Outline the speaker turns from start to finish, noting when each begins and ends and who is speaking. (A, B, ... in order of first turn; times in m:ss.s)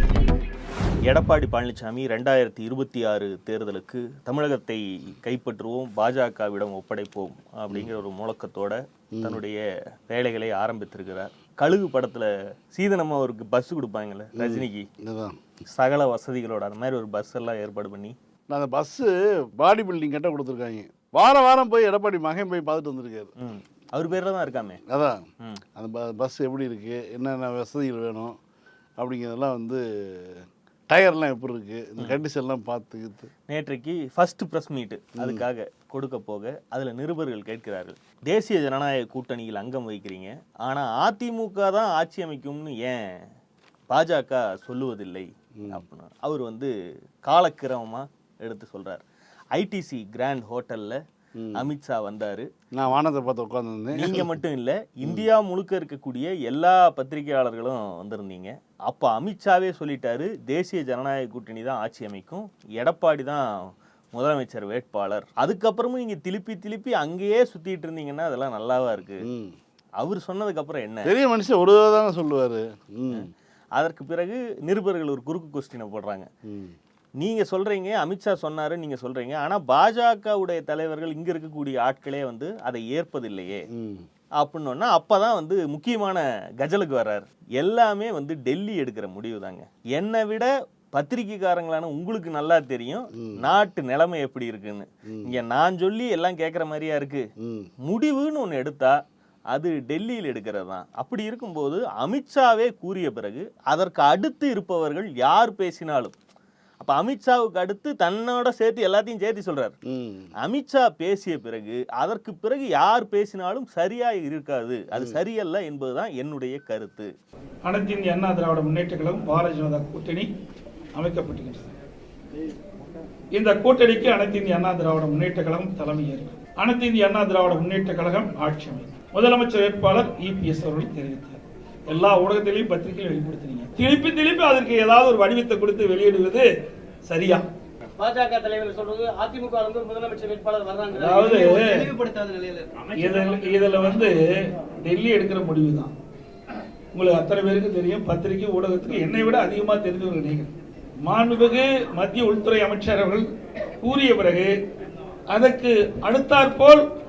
0:01.1-0:14.9 A
0:09.2-0:09.4 B
0:14.4-0:15.4 B
0:15.7-0:18.2 A
0:18.5-0:23.3 B
0:23.4-0:24.8 A
0:24.9-0:25.2 B
0:25.8-0:28.4 B
0:29.0-0:33.3 B
0:33.5-0:43.0 A
0:35.2-0:35.4 B
0:43.9-0:46.7 A
0:47.3-0:49.0 A
0:49.6-0:51.0 A
0:51.4-0:51.6 B
0:51.6-0:52.5 A
0:52.8-0:54.3 B
0:53.9-1:03.5 A
1:04.1-1:09.2 A
1:09.2-1:09.6 B
1:10.0-1:11.1 A
1:11.1-1:13.3 B
1:13.8-1:16.3 A
1:16.4-1:16.8 B
1:17.2-1:23.6 A
1:23.7-1:24.1 B
1:24.4-1:37.3 A
1:33.1-1:33.4 B
1:35.1-1:35.4 B
1:37.4-1:37.7 B
1:37.8-1:39.0 A
1:39.5-1:46.2 A
1:46.8-1:49.8 A
1:49.9-1:50.3 B
1:50.4-1:57.1 A
1:54.9-1:55.2 B
1:57.6-2:00.3 C
2:01.0-2:01.7 C
2:03.3-2:16.5 C
2:17.1-2:17.4 C
2:18.1-2:18.4 D
2:19.3-2:21.5 D
2:20.9-2:22.0 C
2:22.0-2:22.5 D
2:23.0-2:24.2 C
2:24.8-2:25.9 C
2:26.9-2:30.5 C
2:31.1-2:33.3 C
2:33.8-2:34.5 C
2:35.3-2:36.8 C